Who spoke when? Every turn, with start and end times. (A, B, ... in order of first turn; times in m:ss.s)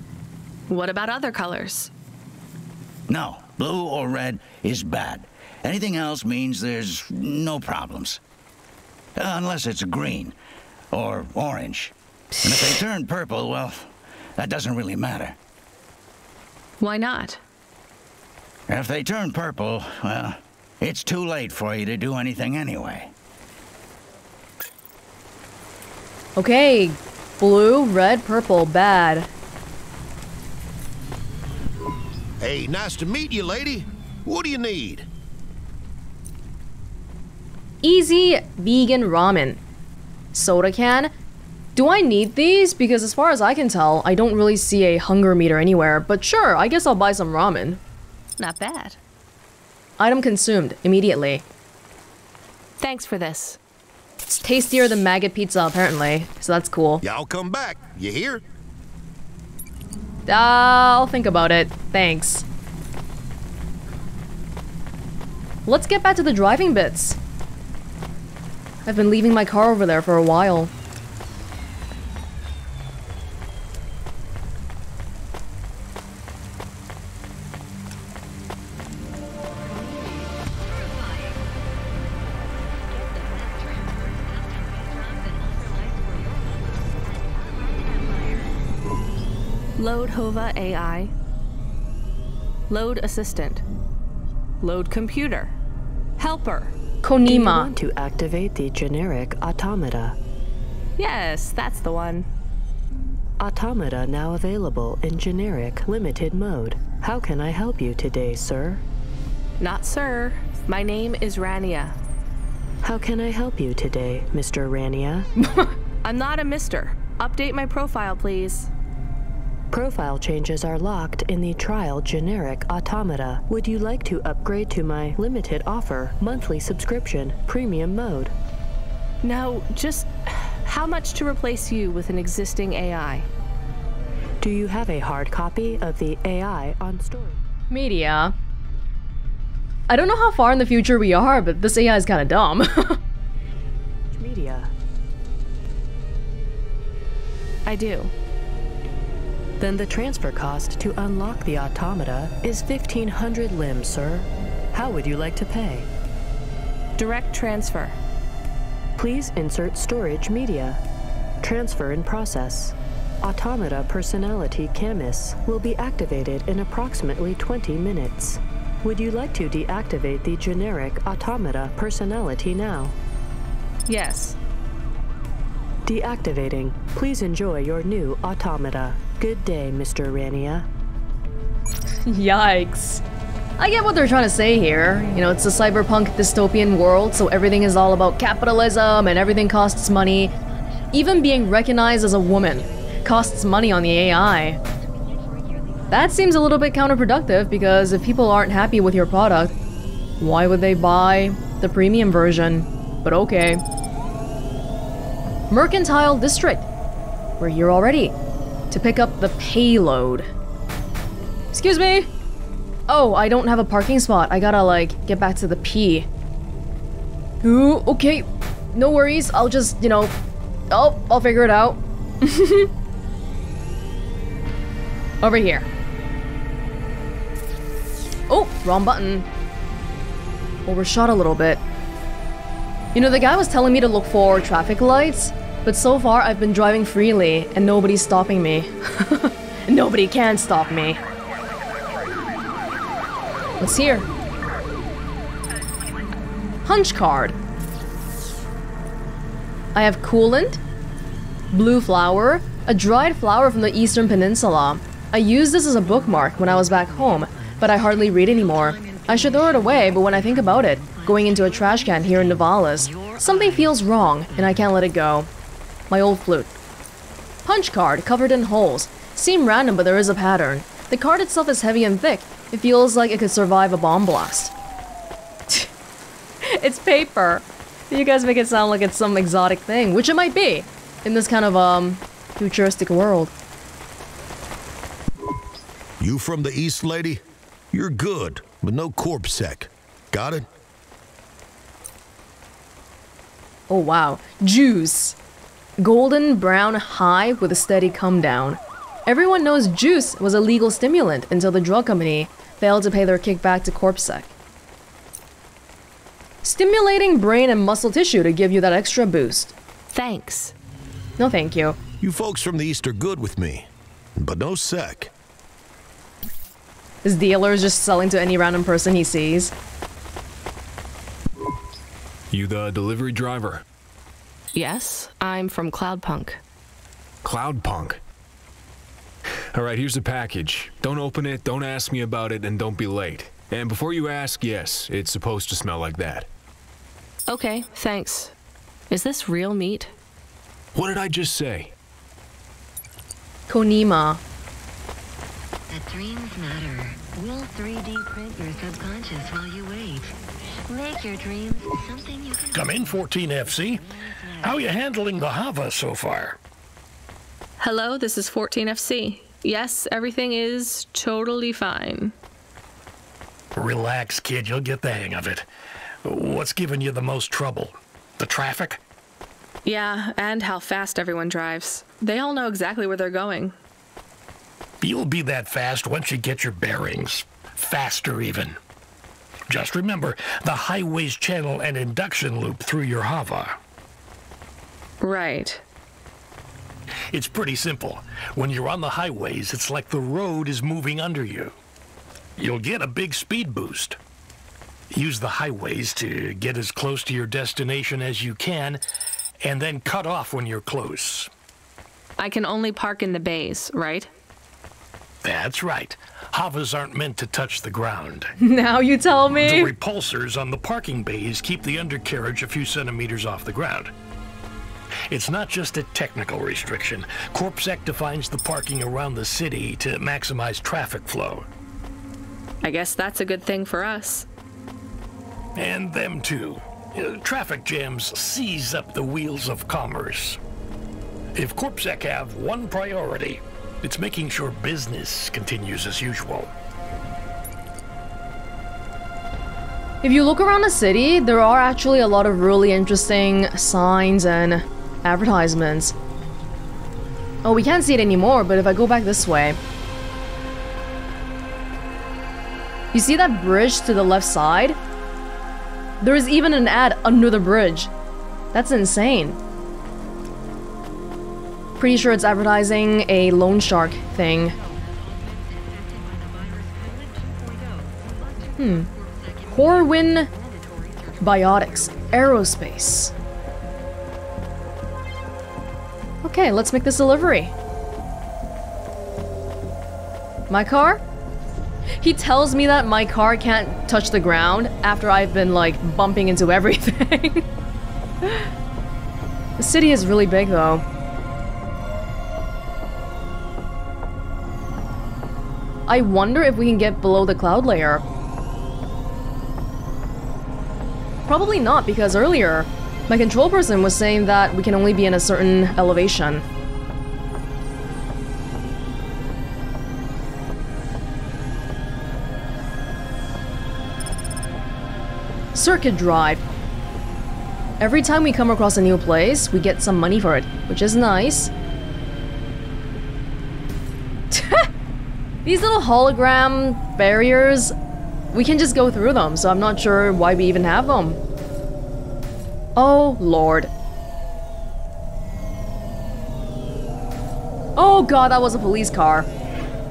0:00.7-0:01.9 A
0:03.1-0:08.2 B
0:09.2-0:10.4 B
0:10.9-0:15.4 B
0:16.8-0:17.4 A
0:18.7-0:23.1 B
0:26.4-0:29.3 C
0:32.4-0:35.1 D
0:37.8-0:39.6 C
0:40.3-0:41.1 C
0:41.8-0:47.8 C
0:48.4-0:49.0 A
0:50.0-0:51.4 C
0:52.8-0:53.6 A
0:54.3-0:57.0 C
0:57.0-0:58.4 D
1:00.3-1:02.4 C
1:05.7-1:07.2 C
1:08.9-1:10.7 C
1:19.6-1:21.5 E
1:22.9-1:28.5 E
1:29.8-1:31.1 A
1:32.7-1:33.6 A
1:34.6-1:35.5 A
1:36.2-1:36.7 A
1:37.0-1:37.7 C
1:37.2-1:40.2 F
1:41.0-1:42.3 A
1:43.4-1:48.8 F
1:49.6-1:52.0 A
1:52.8-1:55.3 F
1:55.4-1:55.7 C
1:56.0-1:58.7 A
1:59.7-2:08.3 F
2:09.2-2:13.3 A
2:14.4-2:17.4 F
2:17.7-2:18.3 C
2:19.9-2:23.0 C
2:24.1-2:24.7 F
2:27.7-2:28.1 A
2:29.6-2:35.9 F
2:37.0-2:38.0 A
2:39.0-2:40.8 F
2:41.4-2:52.9 F
2:53.9-2:54.4 A
2:55.8-3:00.7 F
3:02.1-3:03.0 C
3:03.6-3:10.3 C
3:10.4-3:11.2 E
3:10.9-3:14.6 C
3:14.8-3:16.1 E
3:15.9-3:19.6 C
3:20.2-3:23.6 C
3:25.5-3:26.7 C
3:27.4-3:28.2 C
3:28.7-3:30.3 C
3:31.5-3:32.1 C
3:32.9-3:36.1 C
3:37.4-3:40.1 C
3:40.7-3:42.7 C
3:45.2-3:45.7 C
3:48.3-3:49.3 C
3:50.7-3:51.6 C
3:53.0-4:01.0 C
4:03.6-4:04.1 C
4:06.6-4:07.4 C
4:09.8-4:10.6 C
4:11.5-4:25.3 C
4:15.9-4:24.7 E
4:25.9-4:26.5 C
4:27.4-4:34.5 C
4:36.4-4:43.3 C
4:46.0-4:50.5 D
4:53.7-4:55.2 C
4:55.8-5:04.3 C
5:06.4-5:09.5 C
5:09.9-5:10.5 A
5:11.2-5:11.8 C
5:12.0-5:15.1 D
5:17.0-5:19.5 C
5:22.3-5:23.6 G
5:24.5-5:26.4 A
5:27.2-5:28.0 G
5:29.5-5:36.3 G
5:37.3-5:38.3 A
5:38.9-5:39.9 A
5:40.8-5:41.7 G
5:43.5-5:44.2 C
5:45.7-5:50.1 E
5:50.7-5:54.7 E
5:52.5-5:53.8 H
5:54.4-5:56.4 H
5:57.6-6:02.1 A
6:03.6-6:05.5 H
6:06.0-6:08.8 H
6:09.6-6:13.6 A
6:14.8-6:18.6 H
6:19.5-6:23.6 H
6:25.0-6:25.6 A
6:27.1-6:31.6 H
6:32.4-6:34.0 H
6:34.9-6:38.8 H
6:39.4-6:41.3 H
6:42.2-6:44.1 A
6:45.2-6:48.3 H
6:48.4-6:49.7 C
6:49.3-6:53.9 H
6:55.1-7:01.5 H
7:02.6-7:04.3 A
7:05.6-7:10.4 H
7:11.4-7:16.5 H
7:20.0-7:26.0 C
7:27.4-7:29.6 C
7:32.9-7:34.8 C
7:36.0-7:37.9 C
7:38.5-7:39.4 C
7:41.8-7:44.6 C
7:44.5-7:52.8 E
7:48.6-7:48.9 C
7:49.5-7:50.3 C
7:51.2-7:53.1 C
7:56.2-7:57.5 C
8:00.5-8:01.0 C
8:02.0-8:07.5 C
8:09.6-8:10.8 C
8:15.9-8:18.0 C
8:21.3-8:26.4 C
8:35.6-8:36.4 C
8:37.8-8:41.5 C
8:44.3-8:44.7 C
8:45.4-8:47.7 C
8:48.3-8:51.2 C
8:52.8-8:53.7 C
8:57.8-8:59.3 C